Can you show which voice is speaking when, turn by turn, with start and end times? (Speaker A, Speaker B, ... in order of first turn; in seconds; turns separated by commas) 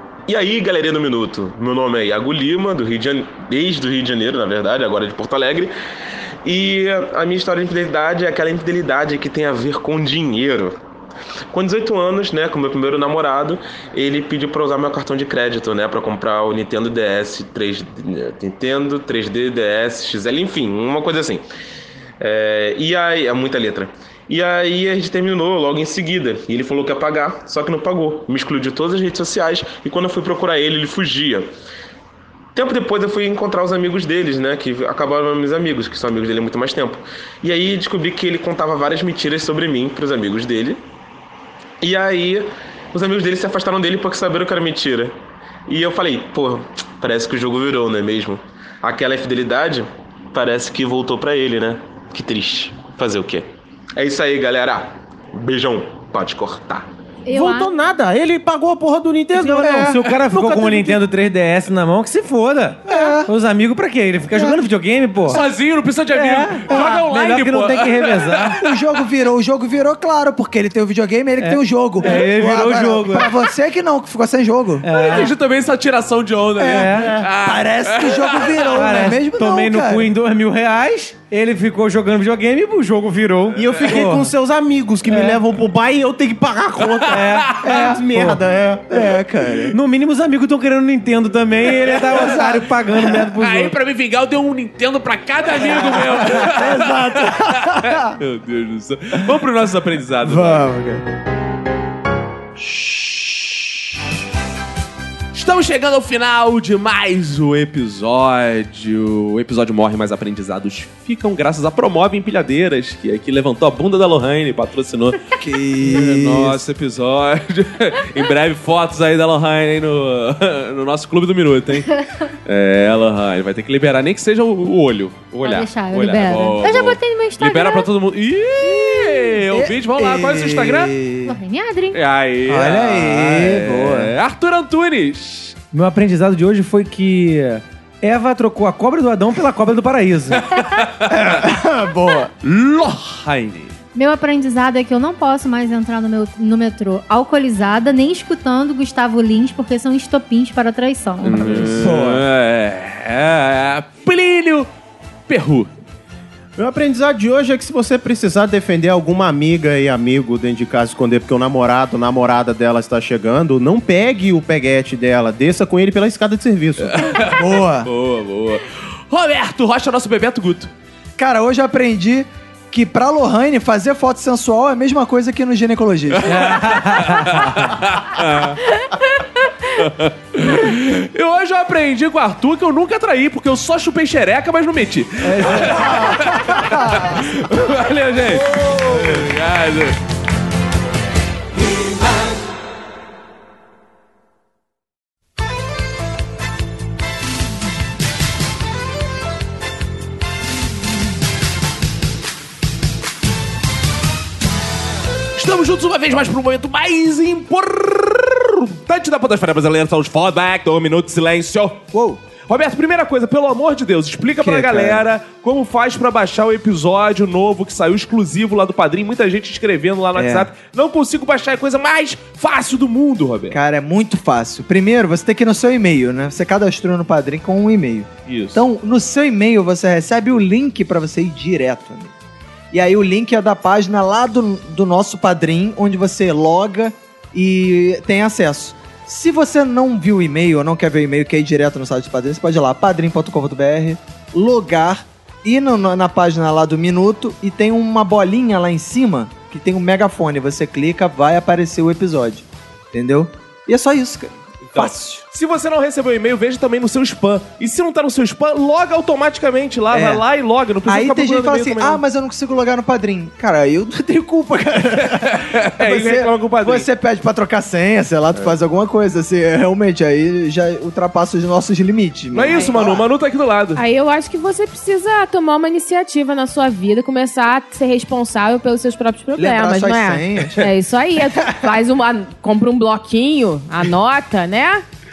Speaker A: 0.3-5.7, Speaker A: 6.4-10.7, Speaker A: 11.5-21.4, Speaker A: 22.2-31.5, Speaker A: 32.5-40.8, Speaker A: 41.8-45.1, Speaker A: 45.7-53.4, Speaker A: 54.0-56.9, Speaker B: 57.2-57.7, Speaker C: 57.3-61.0, Speaker D: 59.3-65.4, Speaker E: 59.6-60.0, Speaker E: 62.9-63.3, Speaker E: 64.3-64.6, Speaker F: 65.3-68.7, Speaker D: 66.1-68.6, Speaker E: 66.7-67.1, Speaker E: 68.6-75.1, Speaker D: 71.4-73.3, Speaker D: 74.8-75.3, Speaker F: 74.9-78.8, Speaker E: 76.6-80.1, Speaker D: 76.7-77.2, Speaker C: 77.0-77.3, Speaker D: 78.7-84.3, Speaker C: 83.5-89.0, Speaker D: 85.1-85.4, Speaker F: 86.9-87.7, Speaker D: 87.1-88.4, Speaker E: 87.6-88.0, Speaker E: 88.9-89.8, Speaker D: 89.7-93.7, Speaker E: 92.1-93.2, Speaker F: 93.4-100.6, Speaker E: 95.5-98.2, Speaker E: 100.2-101.0, Speaker F: 105.3-115.2, Speaker E: 115.4-116.6, Speaker F: 115.8-130.9, Speaker B: 125.4-127.9, Speaker E: 129.5-131.4, Speaker B: 131.2-132.0, Speaker F: 131.9-135.6, Speaker E: 132.5-134.1, Speaker D: 135.7-140.5, Speaker F: 140.6-141.2, Speaker E: 141.1-142.3, Speaker F: 142.4-143.7, Speaker B: 143.9-151.7, Speaker F: 151.2-154.7, Speaker E: 151.7-152.2, Speaker F: 155.3-155.7, Speaker C: 156.6-167.1, Speaker F: 166.8-170.7, Speaker E: 167.3-167.9, Speaker E: 171.2-176.7, Speaker F: 176.2-178.6, Speaker D: 176.3-177.7, Speaker F: 179.7-190.0, Speaker D: 185.2-186.0, Speaker E: 185.6-187.2, Speaker E: 188.3-189.3, Speaker F: 205.3-211.9, Speaker E: 211.9-212.2, Speaker F: 212.4-223.6, Speaker E: 214.4-215.1, Speaker E: 220.2-220.5, Speaker E: 223.5-232.1, Speaker F: 228.3-228.6, Speaker E: 232.7-255.2, Speaker F: 254.7-262.0, Speaker E: 259.9-260.2, Speaker E: 260.8-273.0, Speaker F: 265.1-266.9, Speaker F: 272.3-273.8, Speaker G: 272.5-272.7, Speaker G: 273.8-284.8, Speaker E: 279.4-280.7